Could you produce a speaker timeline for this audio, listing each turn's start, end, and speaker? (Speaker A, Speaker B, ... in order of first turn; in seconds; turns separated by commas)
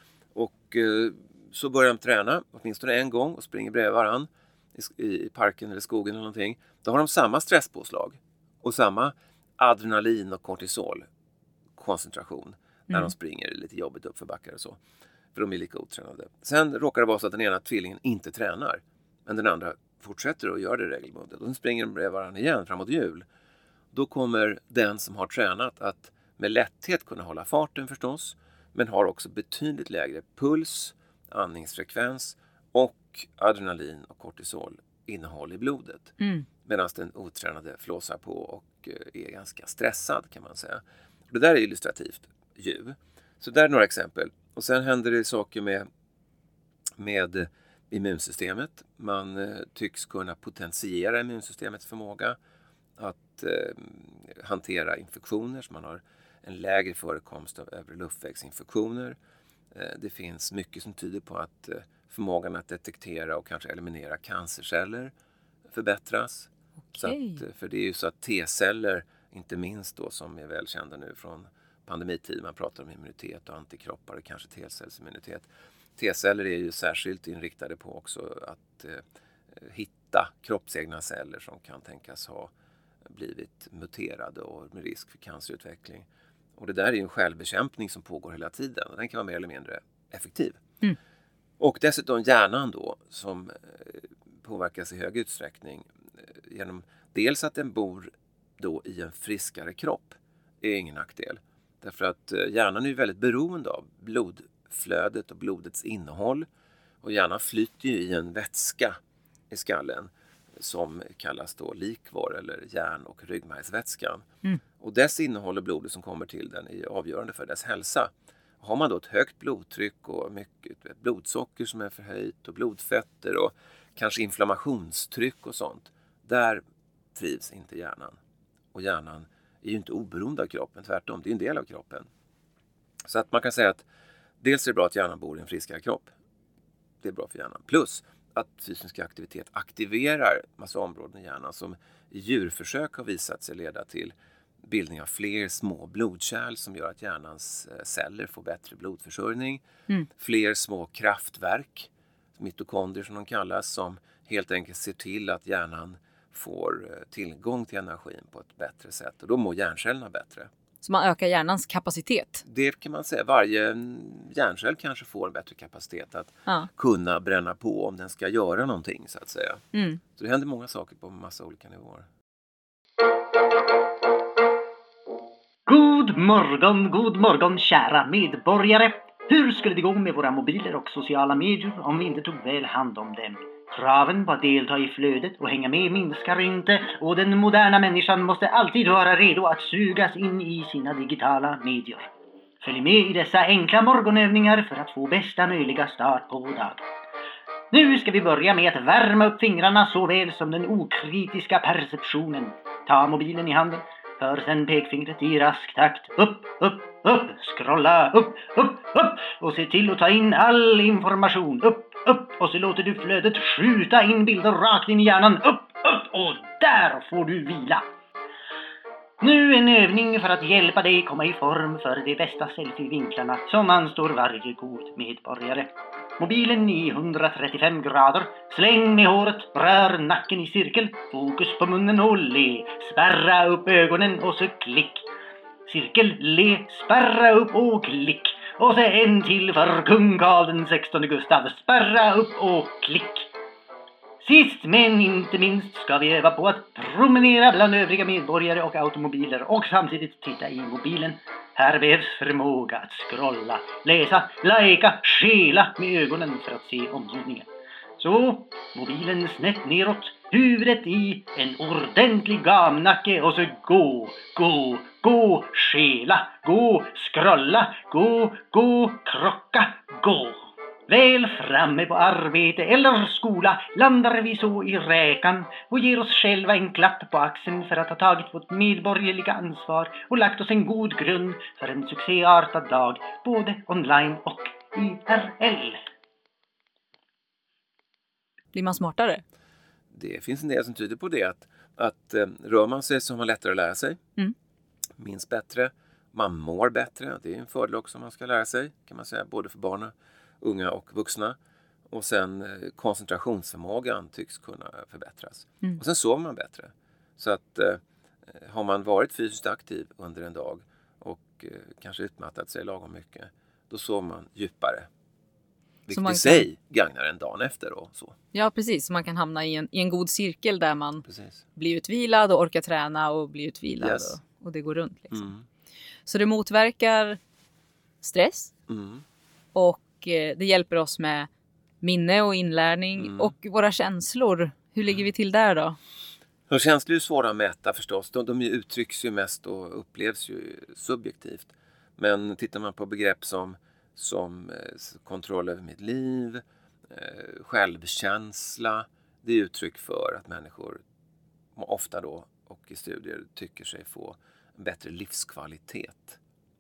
Speaker A: 0.3-11.1, Speaker A: 11.8-14.8, Speaker A: 15.3-23.2, Speaker A: 23.9-45.9, Speaker B: 36.2-36.5, Speaker A: 47.0-52.4, Speaker A: 53.0-59.2, Speaker A: 59.7-65.1, Speaker A: 65.7-82.5, Speaker B: 66.9-67.4, Speaker A: 83.0-90.6, Speaker A: 91.6-106.5, Speaker A: 107.0-109.0, Speaker A: 109.5-114.2, Speaker A: 114.8-126.6, Speaker A: 127.1-128.2, Speaker A: 128.7-132.1, Speaker A: 133.0-133.8, Speaker A: 134.4-136.1, Speaker A: 137.0-149.6, Speaker A: 150.2-160.5, Speaker B: 160.8-162.4, Speaker A: 162.4-172.1, Speaker B: 169.7-170.0, Speaker C: 175.7-192.1, Speaker C: 192.6-196.8, Speaker C: 197.7-217.8, Speaker C: 219.2-235.1, Speaker C: 235.7-243.3, Speaker C: 244.2-285.8, Speaker B: 288.5-289.2, Speaker A: 289.9-294.0, Speaker A: 295.0-301.4, Speaker A: 301.9-314.9, Speaker A: 315.9-318.1, Speaker B: 315.9-316.4, Speaker B: 318.3-321.0, Speaker A: 321.0-321.4, Speaker B: 321.6-325.3, Speaker A: 323.8-324.1, Speaker A: 325.1-325.4, Speaker B: 326.1-327.2, Speaker B: 328.0-328.5, Speaker A: 328.7-329.0, Speaker B: 329.5-331.3, Speaker B: 331.8-335.8, Speaker A: 333.0-333.3, Speaker A: 336.5-350.8, Speaker A: 351.5-356.2